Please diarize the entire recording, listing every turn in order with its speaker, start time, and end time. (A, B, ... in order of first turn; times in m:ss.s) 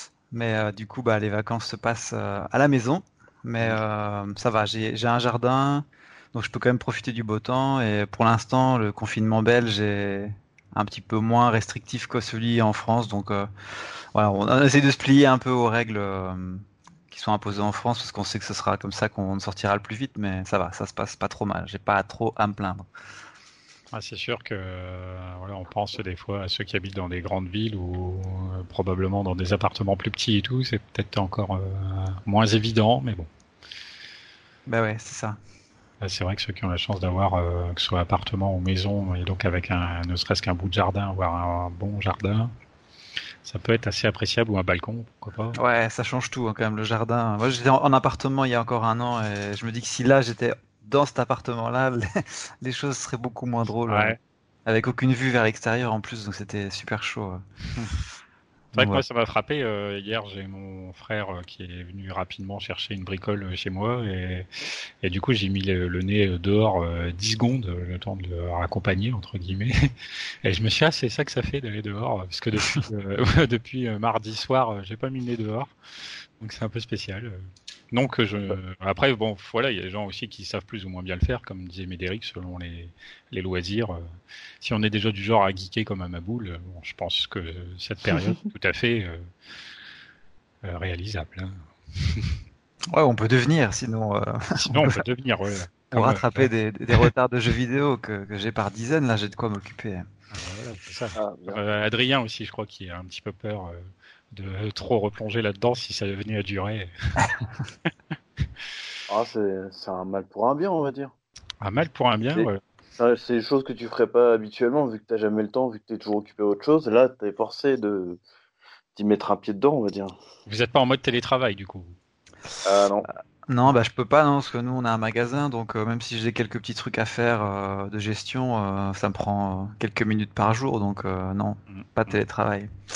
0:00.3-0:22.9 A
0:23.9-0:33.3 B
0:34.7-0:35.4 A
0:36.0-0:42.5 B
0:43.4-0:45.6 B
0:45.6-0:57.9 A
0:53.9-0:54.2 B
0:58.7-1:09.9 B
0:58.8-0:59.0 A
1:10.4-1:15.7 B
1:16.4-1:17.4 B
1:17.9-1:24.0 B
1:24.6-1:29.2 B
1:30.6-1:32.4 B
1:32.9-1:35.0 A
1:34.6-1:36.5 B
1:35.9-1:40.0 A
1:40.3-1:47.3 B
1:41.2-1:41.6 C
1:49.1-1:51.1 C
1:51.6-1:52.6 B
1:52.4-1:58.2 C
1:59.0-2:00.2 C
2:00.5-2:02.0 B
2:02.6-2:03.1 C
2:03.5-2:12.7 A
2:11.7-2:12.1 B